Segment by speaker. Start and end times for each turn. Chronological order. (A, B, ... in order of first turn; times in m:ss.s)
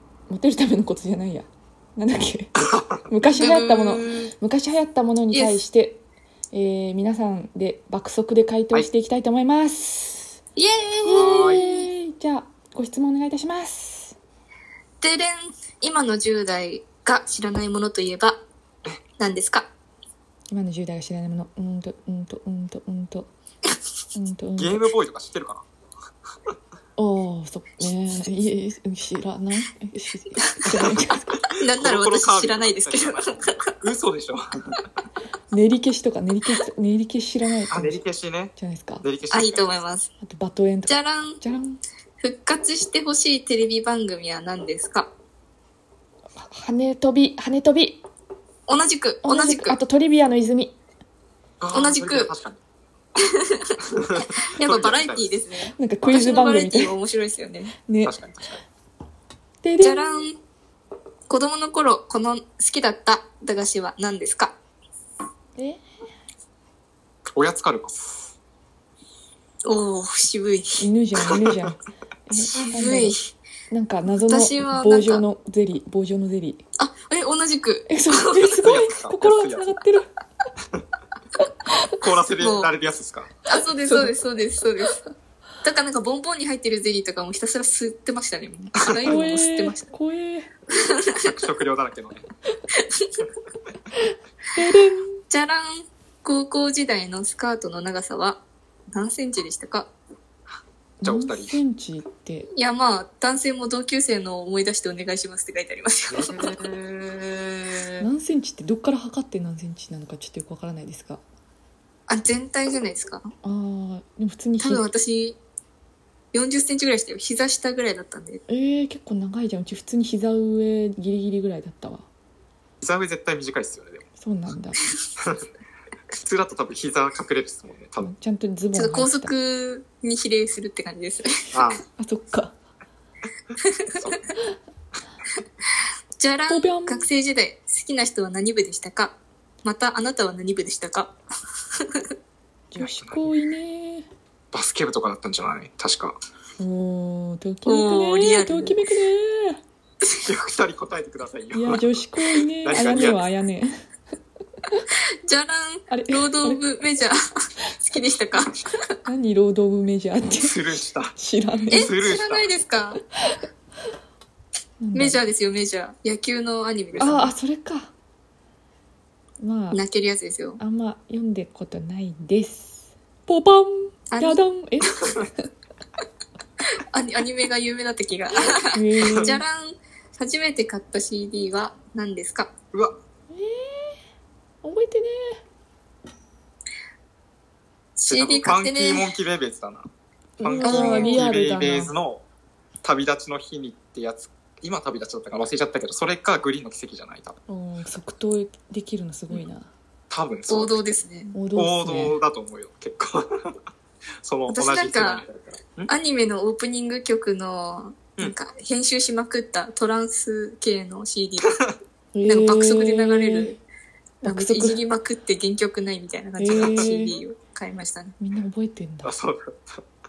0:00.3-0:06.0 A
0:02.6-0:03.1 B
0:03.2-0:04.3 C
0:05.3-0:05.6 C
0:06.5-0:10.4 A
0:10.6-0:11.7 C
0:11.0-0:14.2 A
0:11.1-0:11.8 B
0:15.0-0:18.4 C
0:19.2-0:19.7 C
0:20.5-0:23.3 A
0:24.1-0:24.8 A
0:24.6-0:25.6 B
0:27.0-0:31.4 A
0:31.5-0:33.8 C
0:31.8-0:34.6 B
0:35.5-0:38.0 A
0:37.7-0:39.7 B
0:38.6-0:39.0 A
0:39.3-0:40.1 C
0:40.2-0:41.8 A
0:40.9-0:41.4 C
0:42.2-0:45.1 C
0:46.4-0:48.0 A
0:48.7-0:49.8 C
0:49.2-0:50.8 A
0:51.6-0:52.6 B
0:51.7-0:52.3 C
0:53.3-0:57.7 C
0:54.0-0:55.3 B
0:55.8-0:57.0 A
0:57.8-0:58.2 A
0:58.0-0:58.6 B
0:59.6-1:00.2 A
0:59.8-1:00.4 C
1:01.3-1:04.6 C
1:05.6-1:05.8 A
1:07.3-1:08.3 B
1:09.6-1:10.8 C
1:10.8-1:13.2 A
1:12.5-1:13.2 C
1:13.7-1:16.6 A
1:14.1-1:15.2 C
1:16.8-1:18.5 C
1:17.9-1:20.1 A
1:18.4-1:19.8 B
1:22.0-1:23.3 B
1:22.4-1:22.7 C
1:23.5-1:25.0 C
1:23.8-1:24.2 A
1:25.6-1:29.9 C
1:28.9-1:29.2 B
1:29.0-1:30.5 A
1:30.8-1:31.3 C
1:31.2-1:32.2 B
1:34.5-1:35.2 A
1:35.3-1:39.9 C
1:41.0-1:42.5 A
1:41.0-1:41.6 B
1:42.5-1:46.5 C
1:46.1-1:48.0 B
1:48.0-1:51.2 A
1:52.1-1:53.3 C
1:53.4-1:54.9 A
1:54.6-1:55.4 C
1:56.3-1:58.4 C
1:58.5-2:02.1 A
2:02.8-2:04.0 B
2:04.2-2:04.8 A
2:05.2-2:05.4 B
2:06.1-2:08.1 B
2:08.0-2:09.3 A
2:08.7-2:11.6 C
2:11.5-2:11.8 B
2:12.0-2:12.6 A
2:13.8-2:14.1 C
2:16.2-2:21.1 C
2:16.5-2:17.1 A
2:22.7-2:24.1 A
2:22.8-2:23.3 B
2:24.5-2:26.2 B
2:26.6-2:29.6 A
2:27.7-2:28.8 C
2:30.2-2:31.9 B
2:31.5-2:33.7 A
2:32.6-2:33.2 B
2:35.2-2:37.2 C
2:35.9-2:36.6 A
2:37.8-2:38.6 C
2:39.1-2:40.6 A
2:40.4-2:41.2 B
2:41.2-2:41.9 A
2:41.7-2:43.0 C
2:41.7-2:42.5 B
2:44.8-2:45.2 A
2:44.9-2:47.3 C
2:47.0-2:47.9 A
2:49.4-2:49.8 A
2:49.7-2:50.6 C
2:50.6-2:55.3 A
2:54.1-2:54.4 C
2:56.9-3:02.5 C
2:58.7-2:59.4 A
3:03.3-3:04.0 A
3:04.6-3:05.4 A
3:08.0-3:09.1 C
3:08.1-3:09.9 B
3:10.4-3:11.9 A
3:10.4-3:12.2 B
3:10.6-3:11.2 C
3:12.8-3:17.4 B
3:17.5-3:19.7 A
3:20.1-3:21.0 B
3:20.5-3:21.3 C
3:21.3-3:22.2 A
3:21.6-3:23.6 B
3:24.2-3:25.9 B
3:24.5-3:25.3 C
3:25.9-3:31.5 C
3:31.4-3:31.7 B
3:32.2-3:33.6 A
3:32.3-3:33.6 C
3:34.2-3:34.8 A
3:34.2-3:38.1 C
3:36.4-3:37.2 A
3:36.5-3:36.9 B
3:38.2-3:39.1 A
3:39.0-3:39.8 B